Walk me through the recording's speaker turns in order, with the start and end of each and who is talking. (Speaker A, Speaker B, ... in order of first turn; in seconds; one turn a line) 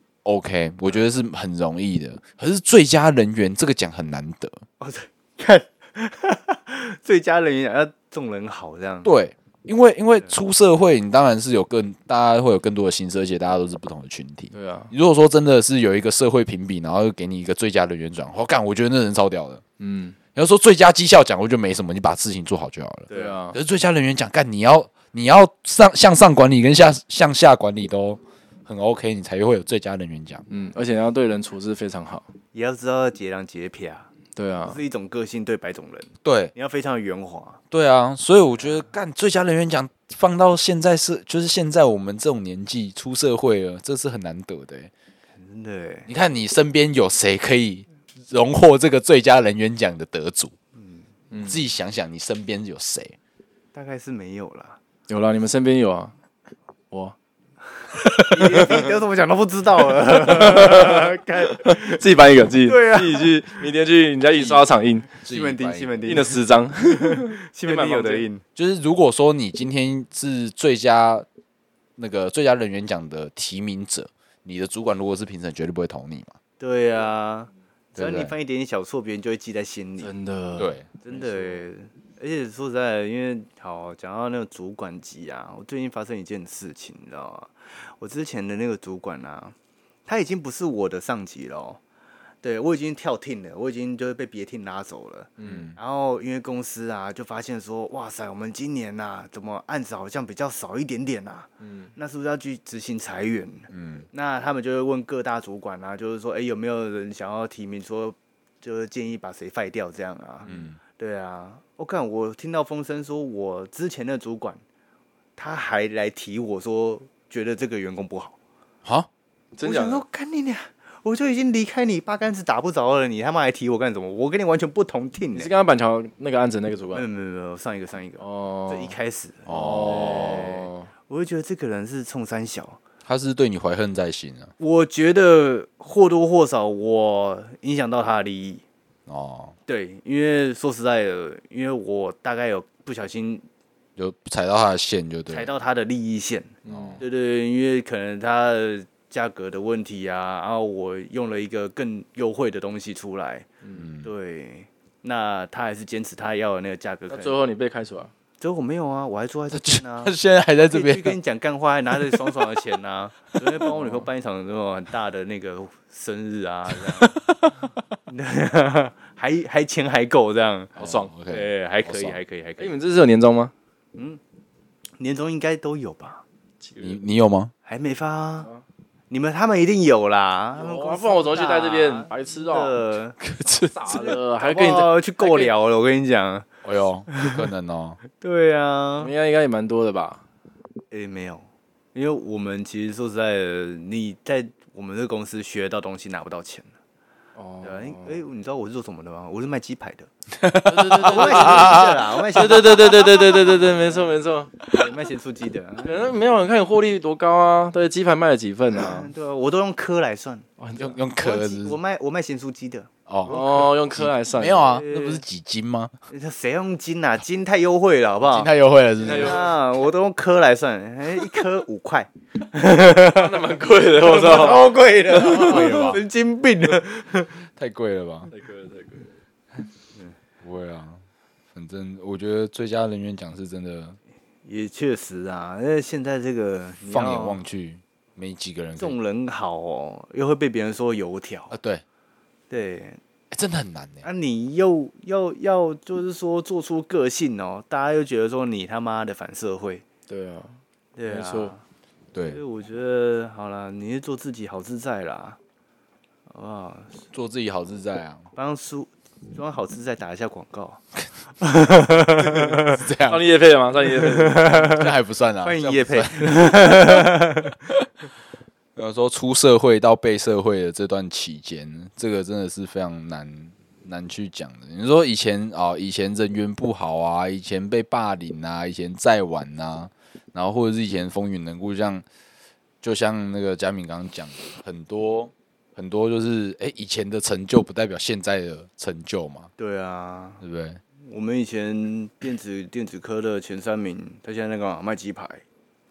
Speaker A: 0.2-4.6
Speaker B: 4.8-9.1
Speaker A: 9.0-19.6
Speaker C: 14.5-14.9
Speaker C: 19.8-20.2
Speaker A: 20.4-30.4
Speaker B: 23.1-23.4
Speaker C: 23.1-23.6
Speaker C: 30.5-32.3
Speaker B: 32.5-34.1
Speaker C: 34.4-34.8
Speaker B: 34.6-37.6
Speaker A: 36.2-36.5
Speaker A: 37.7-44.9
Speaker B: 45.4-46.1
Speaker A: 46.1-50.5
Speaker B: 50.8-51.1
Speaker C: 51.3-51.6
Speaker A: 51.4-53.2
Speaker B: 53.7-54.8
Speaker C: 55.1-56.1
Speaker C: 58.1-58.9
Speaker B: 58.2-63.6
Speaker C: 60.1-65.1
Speaker A: 64.3-64.6
Speaker A: 65.2-66.0
Speaker B: 65.3-68.4
Speaker C: 66.1-68.3
Speaker A: 68.6-71.3
Speaker A: 72.0-76.4
Speaker B: 76.6-80.1
Speaker A: 78.0-78.3
Speaker C: 80.0-81.6
Speaker A: 80.6-80.9
Speaker B: 81.0-89.5
Speaker B: 90.1-91.8
Speaker B: 92.4-114.6
Speaker C: 95.4-95.7
Speaker A: 95.5-95.8
Speaker C: 101.6-101.9
Speaker A: 103.7-104.1
Speaker A: 110.5-110.8
Speaker B: 115.4-118.4
Speaker C: 119.6-120.0
Speaker B: 119.6-125.5
Speaker C: 125.3-127.0
Speaker B: 126.9-132.8
Speaker C: 128.2-128.9
Speaker A: 129.5-130.5
Speaker C: 129.5-130.9
Speaker A: 133.1-134.5
Speaker B: 134.6-138.6
Speaker A: 139.1-139.6
Speaker B: 139.7-143.4
Speaker A: 144.0-145.5
Speaker B: 145.3-153.5
Speaker C: 146.7-147.0
Speaker A: 146.7-147.0
Speaker C: 153.6-153.9
Speaker A: 153.8-154.1
Speaker B: 154.0-157.4
Speaker C: 157.1-158.1
Speaker B: 158.4-160.1
Speaker A: 159.5-161.2
Speaker B: 160.7-167.2
Speaker A: 162.0-162.4
Speaker C: 163.7-164.0
Speaker A: 167.0-167.6
Speaker B: 168.1-170.8
Speaker C: 170.8-171.1
Speaker A: 170.8-172.2
Speaker B: 171.3-172.8
Speaker C: 172.6-173.5
Speaker B: 173.9-174.2
Speaker B: 175.0-176.2
Speaker C: 176.6-177.0
Speaker A: 176.8-177.5
Speaker B: 177.7-178.5
Speaker B: 179.1-183.2
Speaker C: 180.6-182.8
Speaker A: 183.2-184.1
Speaker C: 183.7-185.5
Speaker B: 183.9-186.5
Speaker A: 186.6-188.0
Speaker B: 187.1-187.4
Speaker B: 188.2-189.1
Speaker C: 189.0-190.2
Speaker B: 190.9-196.7
Speaker C: 197.4-198.2
Speaker B: 197.6-200.1
Speaker A: 200.4-202.0
Speaker C: 200.7-204.5
Speaker B: 201.0-203.7
Speaker B: 204.7-206.0
Speaker C: 205.8-209.1
Speaker B: 208.8-210.5
Speaker C: 210.6-211.0
Speaker A: 210.8-211.8
Speaker B: 211.2-213.5
Speaker A: 213.1-215.9
Speaker C: 213.3-214.6
Speaker B: 214.6-215.2
Speaker B: 216.1-218.5
Speaker A: 218.3-219.4
Speaker C: 219.0-219.5
Speaker B: 219.0-227.3
Speaker C: 223.1-225.8
Speaker A: 225.2-226.0
Speaker A: 227.6-228.3
Speaker C: 228.3-229.1
Speaker A: 230.4-231.0
Speaker A: 231.5-234.0
Speaker B: 234.4-237.4
Speaker A: 236.9-239.0
Speaker B: 238.8-241.6
Speaker A: 241.5-241.8
Speaker B: 242.5-243.0
Speaker A: 243.3-244.1
Speaker B: 244.0-249.8
Speaker C: 250.1-251.5
Speaker B: 251.0-251.6
Speaker A: 252.1-252.4
Speaker B: 252.3-255.4
Speaker B: 256.3-257.0
Speaker A: 257.1-258.3
Speaker B: 258.4-260.8
Speaker B: 261.4-262.8
Speaker A: 262.4-263.2
Speaker C: 263.1-264.7
Speaker B: 263.9-267.6
Speaker A: 264.6-266.9
Speaker A: 268.8-282.1
Speaker A: 282.8-289.5
Speaker B: 289.6-290.4
Speaker A: 290.4-290.8
Speaker B: 291.0-295.4